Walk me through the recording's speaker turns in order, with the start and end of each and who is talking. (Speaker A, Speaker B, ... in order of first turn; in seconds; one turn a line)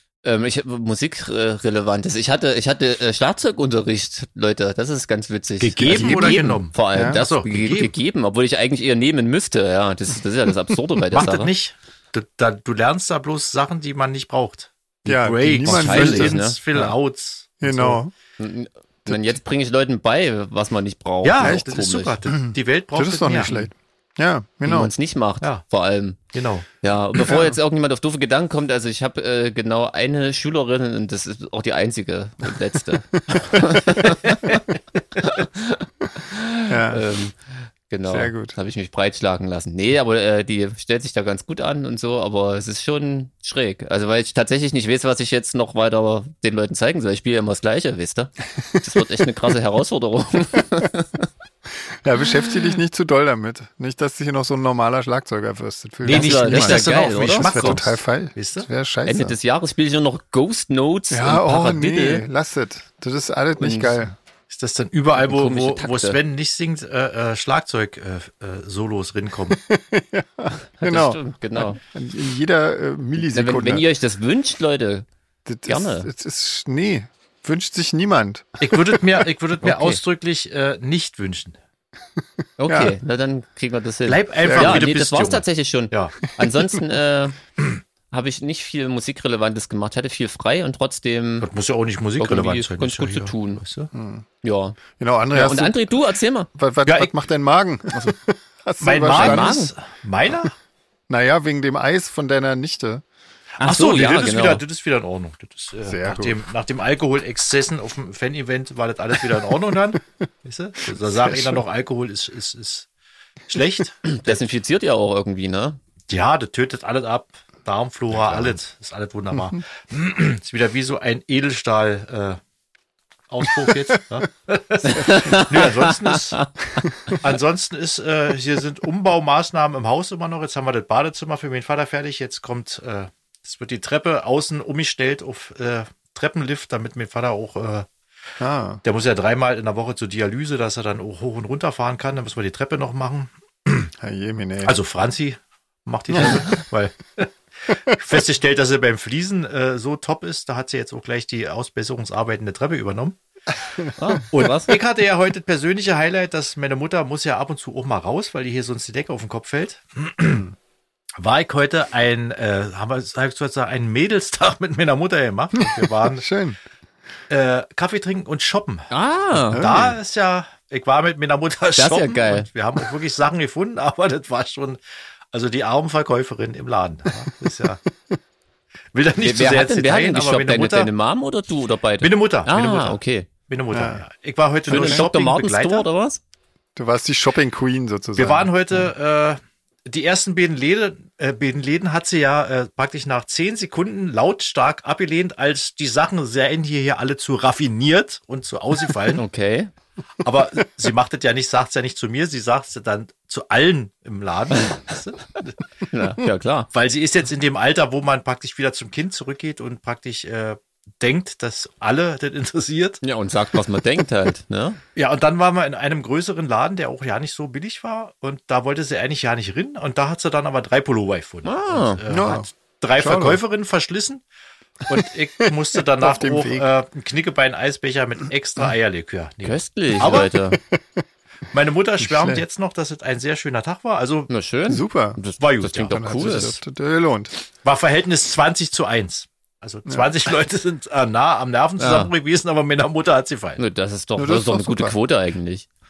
Speaker A: 0.2-11.5
Speaker B: 5.6-7.9
Speaker C: 5.9-7.2
Speaker B: 11.1-18.0
Speaker C: 15.1-16.9
Speaker A: 15.6-16.6
Speaker C: 17.6-18.1
Speaker A: 18.4-22.2
Speaker C: 19.1-19.3
Speaker B: 21.2-23.7
Speaker C: 21.4-21.8
Speaker C: 22.3-24.9
Speaker A: 24.6-37.4
Speaker B: 26.3-26.6
Speaker C: 27.3-27.5
Speaker C: 33.1-34.1
Speaker C: 36.7-37.0
Speaker A: 37.9-51.3
Speaker C: 38.1-38.6
Speaker C: 48.6-49.5
Speaker C: 52.0-59.4
Speaker A: 56.0-57.8
Speaker B: 56.1-58.7
Speaker A: 59.0-62.2
Speaker C: 61.1-64.2
Speaker A: 63.6-63.9
Speaker B: 64.5-69.6
Speaker A: 65.2-66.2
Speaker C: 69.5-73.8
Speaker A: 70.8-71.8
Speaker A: 73.2-75.0
Speaker C: 75.5-79.3
Speaker A: 75.7-76.1
Speaker B: 78.6-81.5
Speaker A: 79.6-80.0
Speaker A: 82.6-87.4
Speaker C: 82.7-82.9
Speaker B: 84.0-86.2
Speaker C: 84.4-84.9
Speaker A: 88.1-91.5
Speaker B: 91.4-93.9
Speaker A: 92.2-93.6
Speaker C: 93.9-94.2
Speaker A: 94.4-94.8
Speaker C: 95.0-95.8
Speaker A: 95.3-96.5
Speaker C: 96.5-99.6
Speaker B: 96.8-97.1
Speaker B: 98.8-100.5
Speaker A: 99.1-99.7
Speaker C: 101.1-103.0
Speaker B: 103.6-112.9
Speaker A: 103.6-104.6
Speaker C: 105.8-106.4
Speaker C: 110.9-111.6
Speaker B: 113.5-114.5
Speaker A: 114.0-115.8
Speaker B: 116.1-122.4
Speaker B: 123.3-126.5
Speaker A: 124.9-127.2
Speaker B: 127.1-137.9
Speaker C: 138.4-138.8
Speaker B: 138.8-143.9
Speaker C: 144.0-144.8
Speaker B: 144.6-153.2
Speaker C: 146.1-146.4
Speaker C: 153.8-154.2
Speaker A: 154.0-154.8
Speaker B: 154.3-160.5
Speaker B: 161.2-166.2
Speaker C: 165.6-166.6
Speaker B: 167.3-174.8
Speaker A: 168.9-169.6
Speaker C: 169.5-169.9
Speaker A: 171.8-172.5
Speaker B: 175.3-177.8
Speaker C: 177.2-178.2
Speaker B: 178.9-180.9
Speaker A: 179.2-183.3
Speaker B: 182.0-183.0
Speaker B: 183.5-185.9
Speaker C: 183.7-184.0
Speaker A: 184.7-186.2
Speaker C: 184.7-185.1
Speaker C: 186.8-188.5
Speaker B: 188.2-199.2
Speaker A: 199.2-199.7
Speaker B: 200.2-205.5
Speaker A: 205.9-206.7
Speaker B: 206.7-213.0
Speaker A: 213.0-214.8
Speaker B: 214.9-224.2
Speaker A: 221.4-222.0
Speaker C: 222.1-223.4
Speaker B: 224.9-230.3
Speaker C: 224.9-226.7
Speaker A: 229.4-230.6
Speaker C: 230.5-231.0
Speaker B: 231.5-234.3
Speaker C: 232.0-232.4
Speaker A: 234.3-236.5
Speaker C: 234.7-235.2
Speaker B: 235.4-236.6
Speaker C: 235.9-237.3
Speaker B: 237.6-243.6
Speaker C: 239.8-240.1
Speaker A: 241.8-242.1
Speaker A: 243.6-245.7
Speaker C: 244.2-245.0